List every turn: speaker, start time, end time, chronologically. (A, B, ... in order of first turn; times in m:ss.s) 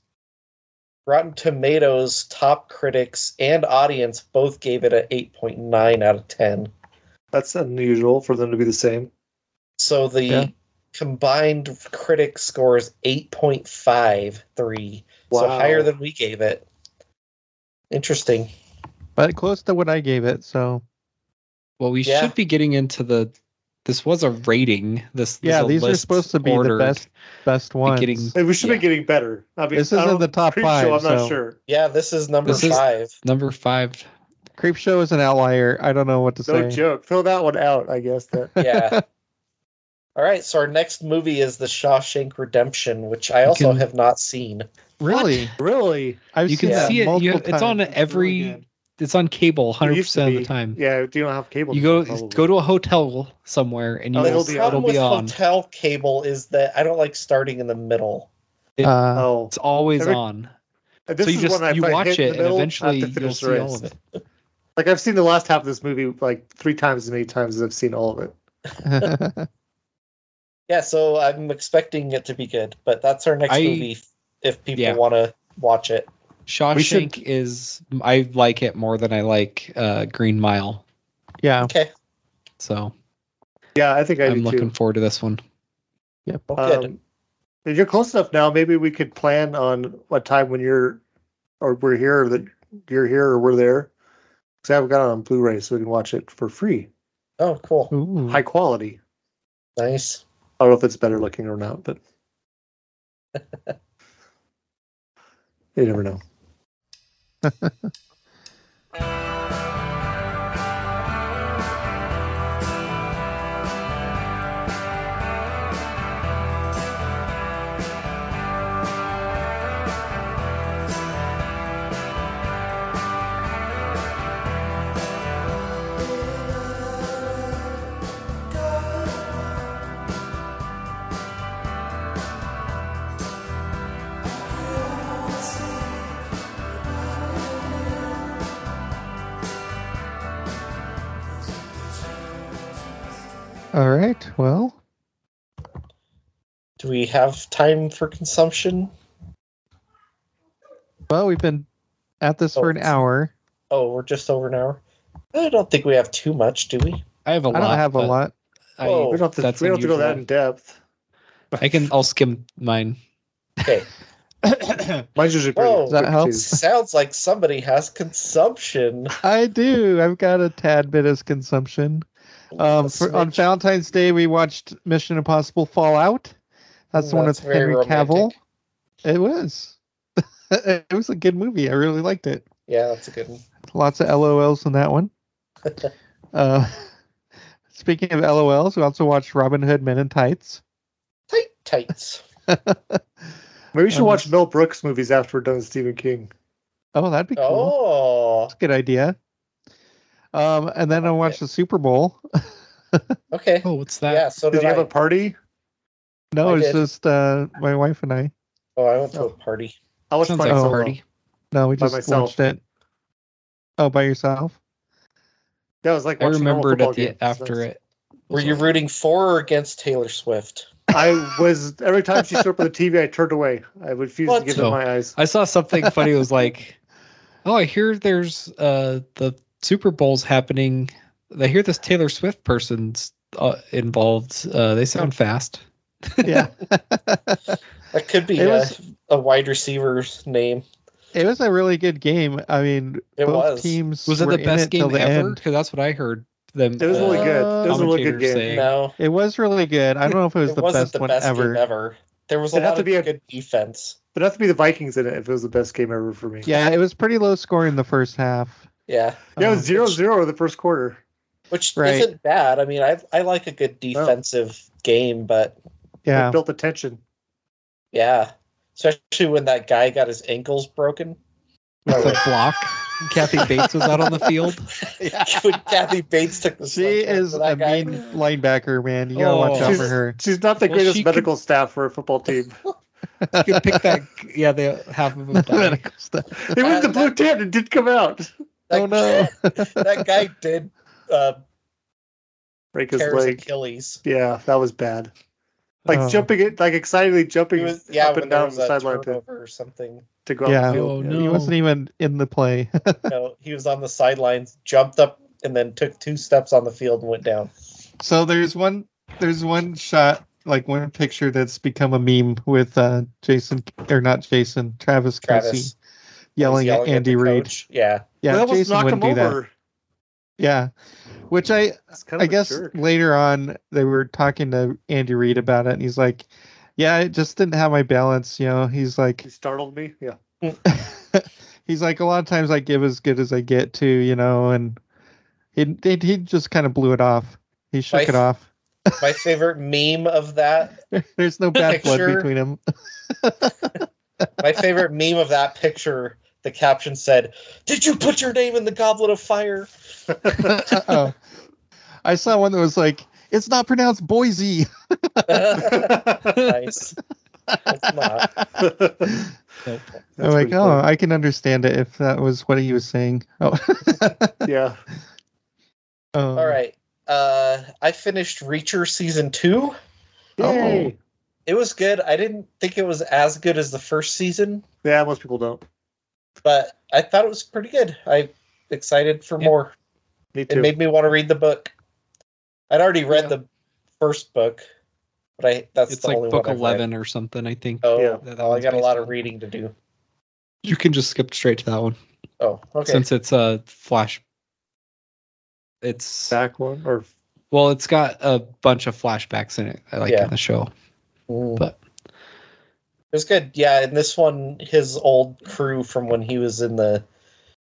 0:01.1-0:06.7 A
0:07.3-0:09.1 B
0:09.8-0:16.6 A
0:15.3-0:15.9 B
0:17.9-0:18.5 A
0:19.2-0:20.8 C
0:21.8-0:23.3 D
0:22.0-0:22.3 A
0:23.8-0:27.1 D
0:25.4-0:28.3 C
0:27.8-0:28.8 D
0:28.3-0:31.6 B
0:29.7-0:31.4 C
0:31.7-0:33.1 A
0:32.4-0:34.1 D
0:32.5-0:32.8 C
0:34.6-0:36.8 C
0:36.4-0:38.6 B
0:38.6-0:39.0 C
0:38.6-0:39.0 A
0:40.2-0:44.7 A
0:43.4-0:43.9 D
0:45.0-0:45.5 C
0:45.1-0:46.2 B
0:46.3-0:48.6 C
0:46.5-0:50.8 D
0:46.7-0:47.0 A
0:49.8-0:52.4 B
0:51.7-0:55.3 D
0:54.1-0:54.8 B
0:54.2-0:58.3 A
0:58.8-0:59.3 C
0:59.1-1:00.2 B
0:59.5-1:00.5 D
1:01.1-1:03.9 B
1:01.2-1:03.9 D
1:04.8-1:08.3 B
1:08.8-1:09.5 C
1:10.7-1:16.1 A
1:13.5-1:13.9 D
1:16.5-1:20.8 D
1:16.7-1:17.2 B
1:21.4-1:21.7 C
1:21.6-1:21.9 A
1:22.6-1:22.9 D
1:23.8-1:24.7 B
1:24.2-1:25.4 D
1:26.5-1:26.9 A
1:26.6-1:27.0 B
1:27.6-1:31.0 B
1:31.6-1:33.9 B
1:34.6-1:36.9 B
1:37.4-1:37.9 A
1:37.9-1:38.4 C
1:38.3-1:39.0 B
1:39.8-1:40.2 A
1:40.6-1:42.0 B
1:45.8-1:46.2 B
1:47.4-1:47.9 C
2:23.7-2:24.8 C
2:26.8-2:28.9 A
2:31.1-2:31.7 C
2:32.2-2:33.3 C
2:32.6-2:32.9 A
2:33.7-2:34.8 A
2:35.3-2:37.0 A
2:37.2-2:38.1 D
2:37.5-2:38.3 C
2:38.8-2:40.2 D
2:38.8-2:39.2 A
2:39.1-2:40.8 B
2:41.6-2:43.0 D
2:44.4-2:44.9 C
2:45.2-2:46.5 B
2:45.6-2:49.1 A
2:45.9-2:46.6 C
2:49.2-2:56.4 C
2:52.5-2:53.4 A
2:56.9-2:58.3 C
2:57.0-2:58.3 A
2:59.0-3:02.4 C
3:02.7-3:03.4 A
3:03.7-3:05.1 C
3:06.3-3:06.9 C
3:07.7-3:10.6 C
3:11.3-3:12.2 A
3:12.5-3:13.0 C
3:13.7-3:16.3 B
3:13.9-3:14.3 C
3:16.9-3:17.7 C
3:17.4-3:18.5 A
3:18.5-3:19.2 C
3:20.3-3:22.2 C
3:21.0-3:21.4 A
3:23.3-3:24.9 A
3:23.6-3:24.2 D
3:24.5-3:25.4 B
3:26.3-3:28.3 C
3:26.4-3:26.8 A
3:28.8-3:29.7 A
3:30.1-3:31.0 B
3:30.2-3:31.0 D
3:30.4-3:30.8 C
3:31.5-3:32.6 C
3:31.8-3:32.3 B
3:33.8-3:34.6 C
3:35.8-3:37.6 B
3:36.2-3:37.8 D
3:38.3-3:38.7 D
3:38.3-3:40.8 A
3:40.9-3:45.1 B
3:44.2-3:44.7 A
3:44.6-3:46.8 D
3:47.4-3:56.4 D
3:56.2-3:57.6 C
3:57.9-4:00.6 A
3:58.3-3:58.7 C
4:01.1-4:05.4 C
4:03.2-4:03.8 A
4:04.1-4:08.7 D
4:06.8-4:08.6 B
4:06.8-4:07.9 A
4:07.3-4:07.7 C
4:08.5-4:09.0 A
4:09.0-4:11.6 C
4:10.4-4:14.0 A
4:12.5-4:13.1 B
4:14.1-4:16.5 B
4:16.4-4:18.7 C
4:18.9-4:19.9 A
4:19.4-4:19.7 C
4:19.4-4:21.0 B
4:21.5-4:25.6 A
4:21.8-4:22.1 C
4:26.0-4:26.4 C
4:26.1-4:27.0 B
4:27.9-4:31.2 A
4:31.8-4:32.2 C
4:31.9-4:32.2 A
4:31.9-4:34.7 D
4:34.9-4:35.9 C
4:35.2-4:38.0 A
4:36.6-4:40.2 C
4:39.1-4:39.8 D
4:39.6-4:42.6 B
4:40.6-4:41.3 D
4:43.2-4:44.0 C
4:43.4-4:45.8 D
4:45.3-4:46.4 C
4:46.4-4:48.3 B
4:46.6-4:47.1 A
4:48.7-4:51.4 A
4:48.7-4:50.0 C
4:52.7-4:53.4 B
4:52.9-4:54.0 A
4:54.0-4:55.1 B
4:55.9-4:59.2 B
4:55.9-4:56.3 C
4:57.6-5:00.0 A
5:00.2-5:01.2 B
5:00.4-5:03.1 C
5:00.7-5:01.5 D
5:03.1-5:07.5 A
5:08.0-5:15.7 C
5:15.2-5:15.7 A
5:16.4-5:17.5 C
5:16.4-5:18.1 A
5:18.2-5:19.4 C
5:18.3-5:19.5 B
5:20.4-5:20.7 C
5:21.3-5:29.2 C
5:21.9-5:22.8 B
5:29.2-5:30.2 B
5:30.7-5:34.8 C
5:35.6-5:39.2 C
5:37.9-5:38.2 A
5:39.0-5:40.8 A
5:40.9-5:43.8 C
5:41.6-5:42.3 A
5:44.4-5:49.7 A
5:50.2-5:50.8 A
5:50.6-5:51.1 C
5:52.0-5:55.8 C
5:55.3-5:57.0 A
5:55.7-5:56.3 B
5:57.5-5:58.3 C
5:57.7-5:58.3 A
5:58.6-5:59.1 B
5:59.0-5:59.3 C
6:00.2-6:00.8 B
6:00.2-6:04.3 C
6:04.4-6:04.8 B
6:06.1-6:06.6 C
6:06.4-6:09.8 A
6:10.4-6:11.0 B
6:10.4-6:10.9 C
6:10.5-6:10.8 A
6:11.4-6:14.6 A
6:14.8-6:15.6 B
6:16.4-6:19.7 A
6:20.3-6:20.7 B
6:20.5-6:21.7 A
6:22.7-6:23.5 A
6:24.0-6:24.6 A
6:25.4-6:26.8 A
6:25.9-6:29.1 D
6:27.8-6:29.7 A
6:28.0-6:28.2 B
6:30.6-6:32.0 D
6:32.4-6:33.0 A
6:32.8-6:34.2 D
6:35.8-6:36.3 D
6:36.3-6:37.1 B
6:37.5-6:40.7 D
6:41.3-6:41.6 A
6:43.1-6:47.0 A